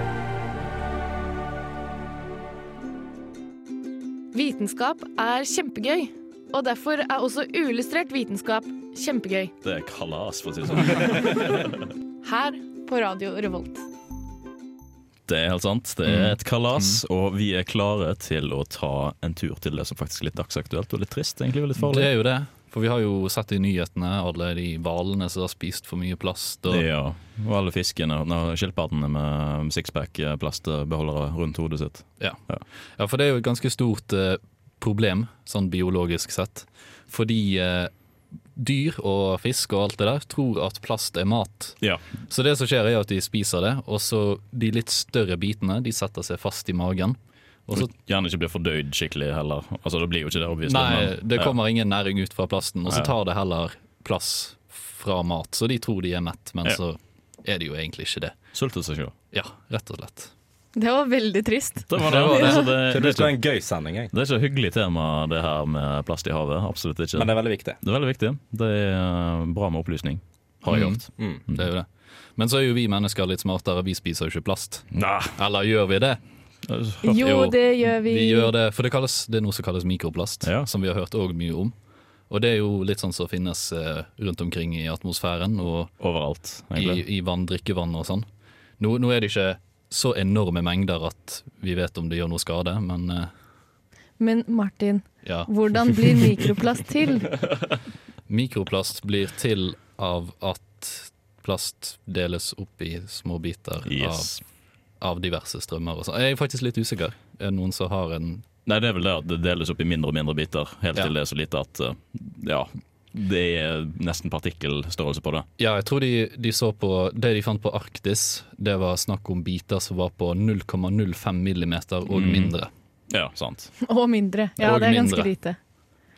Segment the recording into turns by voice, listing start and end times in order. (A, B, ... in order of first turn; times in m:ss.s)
0:04.3-0:09.5 A
0:09.6-0:11.8 B
0:12.2-0:13.8 A
0:15.3-0:22.1 B
0:16.0-0:17.0 C
0:21.8-0:26.8 C
0:26.7-0:32.6 B
0:33.0-0:37.9 C
0:38.5-0:47.9 C
0:47.7-0:51.6 B
0:50.6-0:58.3 C
0:52.9-0:53.1 B
0:58.5-0:59.1 B
0:59.3-1:00.3 C
1:00.8-1:02.7 A
1:01.9-1:03.3 B
1:02.0-1:02.6 C
1:02.8-1:04.1 D
1:04.1-1:11.6 B
1:07.1-1:07.8 D
1:10.6-1:16.2 C
1:14.9-1:15.3 B
1:16.6-1:17.1 B
1:17.0-1:18.5 A
1:17.1-1:21.7 C
1:20.4-1:20.7 B
1:22.3-1:25.9 C
1:26.0-1:27.0 B
1:26.7-1:28.2 C
1:28.8-1:33.3 C
1:34.2-1:37.4 A
1:35.2-1:36.3 C
1:38.3-1:44.3 C
1:43.9-1:44.4 B
1:45.0-1:48.4 C
1:48.6-1:55.5 B
1:55.6-2:02.7 C
2:02.1-2:02.5 B
2:03.1-2:03.7 B
2:03.8-2:05.6 A
2:04.6-2:05.3 C